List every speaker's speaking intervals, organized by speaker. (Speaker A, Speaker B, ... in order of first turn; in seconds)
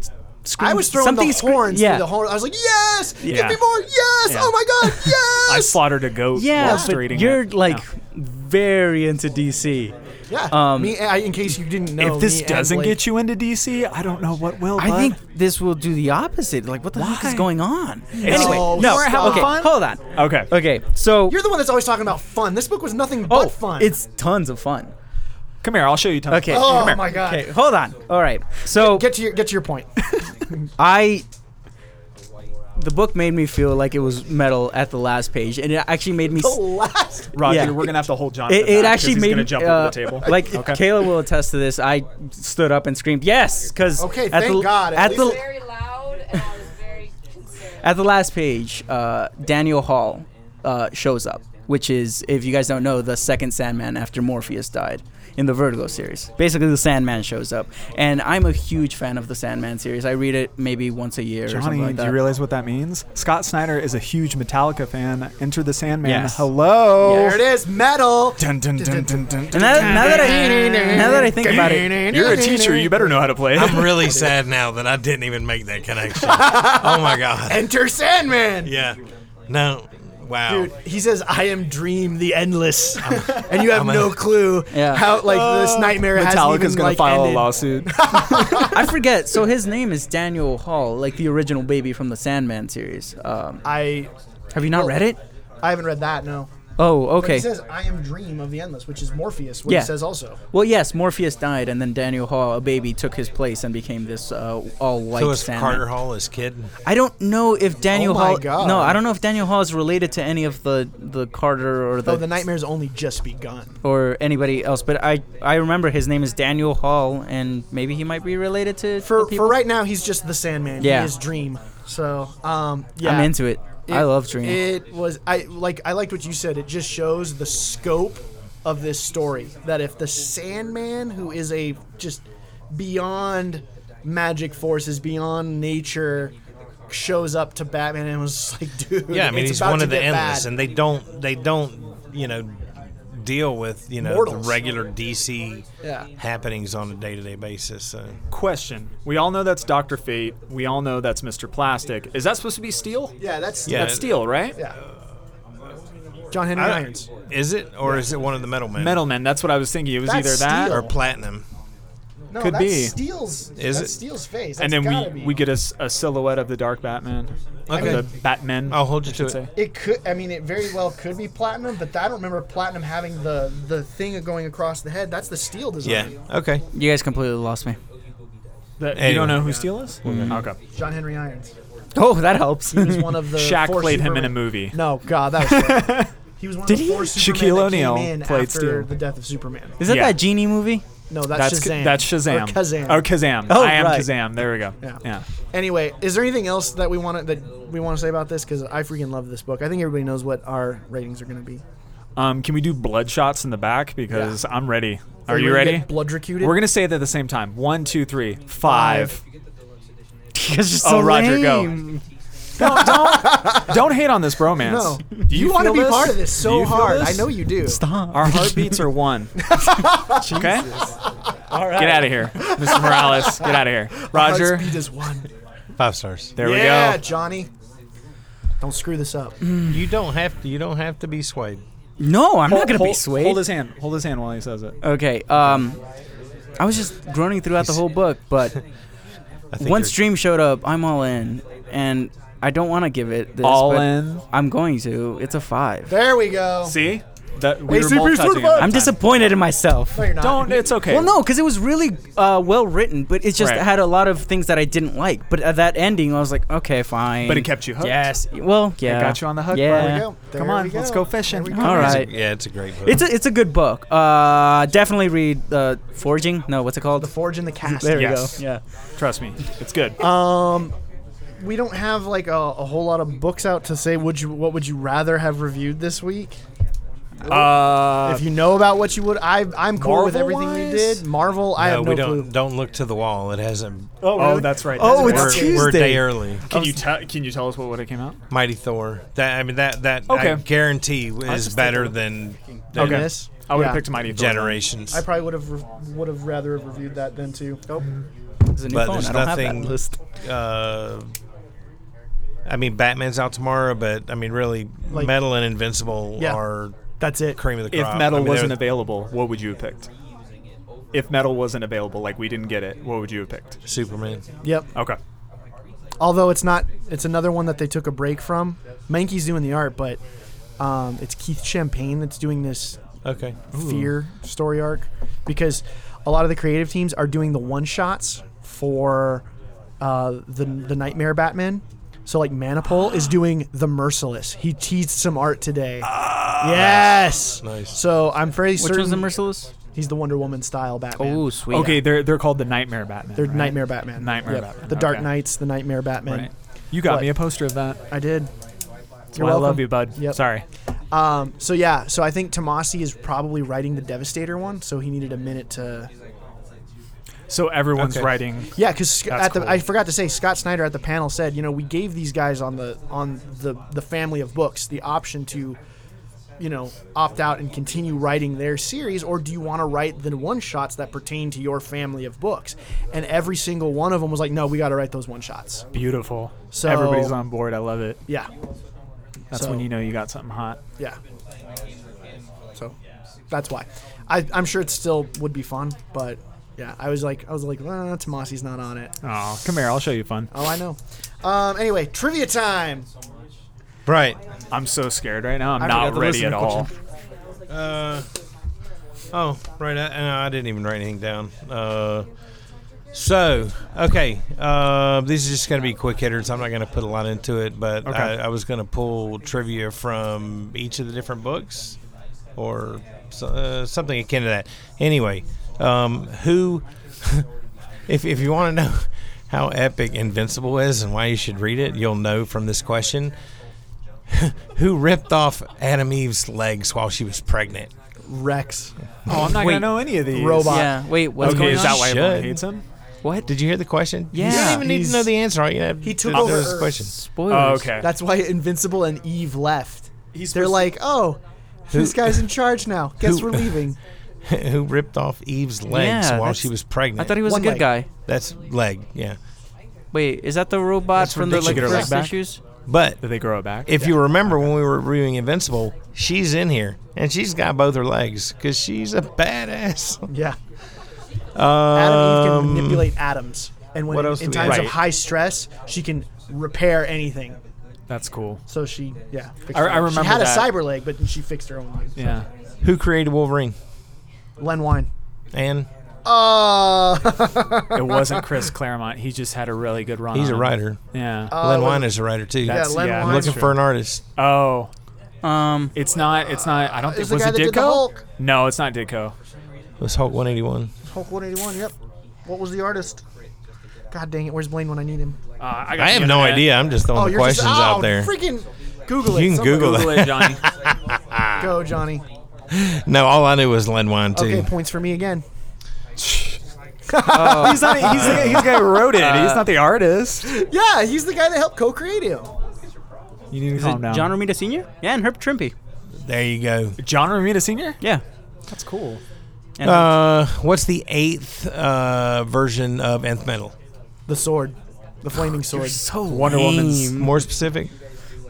Speaker A: 0.5-2.1, 6.3-9.9, 10.5-11.0, 14.8-21.4, 23.3-24.9, 26.3-29.1, 30.8-31.3, 32.8-36.6, 37.5-37.8, 38.5-45.4, 47.8-62.2, 66.0-66.5, 67.0-67.4, 69.5-71.9, 84.7-85.1, 88.7-93.7, 94.5-95.2, 96.8-97.5, 100.5-105.9, 106.9-112.3, 113.8-119.6, 120.8-121.1, 123.0-124.6, 176.7-177.8, 180.1-180.4, 181.9-183.1, 189.8-190.8, 193.5-194.1, 210.3-212.0, 217.7-218.8, 220.3-220.7, 221.5-222.3, 229.5-229.8, 232.0-233.5, 234.8-235.8, 236.6-238.6, 239.6-245.9, 248.6-250.2, 250.9-260.1, 261.5-262.2, 262.8-268.6, 284.8-286.1, 298.5-299.9, 338.6-339.5, 341.0-341.8, 430.4-431.8, 434.1-435.1, 436.8-437.8, 445.7-447.9, 449.9-452.4, 485.2-485.7, 507.1-507.6, 509.0-509.4, 513.5-515.5, 519.6-519.9, 525.5-527.2
Speaker B: 0.6-5.8, 6.5-7.0, 10.3-13.0, 18.2-19.7, 21.3-23.9, 26.5-27.5, 28.7-30.1, 36.3-38.1, 40.2-40.8, 44.0-45.5, 67.1-73.3, 74.0-74.3, 76.2-78.7, 80.5-88.9, 93.7-95.1, 95.6-96.5, 97.2-100.4, 107.9-109.0, 112.0-113.8, 119.0-136.3, 136.9-140.5, 144.0-144.6, 153.2-154.8, 156.3-157.1, 160.0-160.9, 162.3-165.4, 167.8-168.1, 169.6-176.1, 180.7-181.5, 182.7-189.8, 191.1-193.1, 194.8-201.6, 204.1-204.4, 205.3-206.7, 208.6-209.1, 212.6-213.8, 214.6-217.8, 219.4-220.6, 222.4-225.3, 226.4-227.5, 228.6-229.4, 245.9-246.8, 247.7-248.8, 249.9-250.8, 259.6-262.0, 267.0-268.2, 270.0-270.7, 271.4-276.4, 277.2-282.3, 284.1-285.7, 292.7-293.9, 294.9-297.8, 307.0-307.4, 314.4-314.7, 316.0-320.0, 320.6-322.8, 323.5-329.2, 329.8-335.9, 336.4-339.1, 339.8-341.2, 343.2-346.3, 346.8-347.1, 347.9-348.3, 349.1-350.2, 350.9-355.9, 358.6-365.6, 366.4-375.6, 376.5-377.2, 379.3-379.7, 383.3-388.9, 390.3-392.9, 395.6-396.7, 428.1-428.7, 429.9-430.8, 435.8-436.8, 437.8-443.8, 447.2-447.7, 460.1-460.4, 461.7-467.4, 468.5-472.1, 474.4-474.9, 476.1-478.2, 481.3-481.9, 482.4-483.5, 486.5-488.0, 490.9-491.7, 492.3-493.0, 493.9-495.2, 496.9-499.9, 501.4-502.0, 504.1-505.2, 506.9-508.8, 510.2-512.3, 524.1-525.8
Speaker C: 3.2-3.6, 4.2-4.5, 5.5-7.8, 12.0-15.2, 16.9-17.5, 18.2-20.5, 25.6-27.0, 37.3-40.8, 61.5-67.4, 68.4-74.2, 85.1-88.4, 148.3-153.2, 153.7-154.6, 158.8-160.8, 162.4-163.0, 164.6-169.5, 178.8-180.6, 183.3-184.8, 185.3-186.1, 186.7-188.9, 189.8-190.2, 191.3-195.2, 202.2-209.2, 210.8-211.8, 212.6-219.4, 220.2-220.7, 221.7-224.8, 226.4-227.0, 232.5-234.8, 243.4-244.2, 246.6-249.2, 250.2-251.1, 253.4-253.6, 257.2-258.1, 258.8-262.0, 267.9-268.4, 269.0-270.0, 277.3-278.3, 279.8-281.1, 284.1-285.8, 286.5-288.2, 290.1-290.4, 292.8-294.6, 307.7-309.9, 310.9-313.6, 323.5-323.9, 335.9-336.4, 341.5-345.1, 346.1-347.8, 349.1-350.4, 357.3-359.7, 375.7-378.0, 379.3-380.6, 389.0-390.3, 394.5-396.7, 407.9-408.1, 429.1-432.6, 437.3-437.9, 440.1-440.7, 451.0-452.1, 453.0-453.8, 464.4-464.8, 467.9-468.4, 469.5-470.6, 472.0-472.3, 477.7-481.4, 482.4-483.6, 484.2-484.7, 485.8-489.1, 495.4-496.5, 499.5-500.4, 506.0-506.4, 507.1-510.3, 513.3-514.1, 516.8-517.8, 518.5-519.0, 526.1-527.0
Speaker D: 45.1-47.9
Speaker E: 73.5-77.7, 78.6-79.0, 79.5-80.7, 83.0-84.3, 105.1-106.7, 139.1-145.7, 146.2-148.2, 153.7-154.1, 156.5-159.0, 160.7-161.4, 163.6-163.9, 167.7-168.1, 168.7-169.4, 175.8-176.6, 178.9-180.4, 225.8-226.3, 229.7-231.6, 239.5-240.0, 261.6-263.0, 281.6-284.2, 284.9-286.5, 288.3-293.1, 294.0-295.0, 298.7-301.1, 302.5-306.8, 307.3-308.6, 313.7-314.2, 323.0-323.4, 336.4-337.8, 357.8-358.1, 393.9-394.2, 397.5-398.1, 399.1-402.1, 402.9-411.8, 412.4-417.2, 417.9-423.1, 424.1-427.7, 431.2-432.4, 433.3-436.9, 441.7-442.2, 443.0-443.6, 444.3-447.2, 448.1-449.2, 451.3-451.8, 452.7-453.0, 453.7-460.1, 461.4-462.9, 463.9-464.7, 472.6-473.6, 475.3-475.7, 480.1-484.0, 489.8-490.7, 495.7-498.1, 499.0-501.6, 502.5-504.5, 507.9-508.3, 516.0-516.8, 519.6-523.5, 526.9-527.7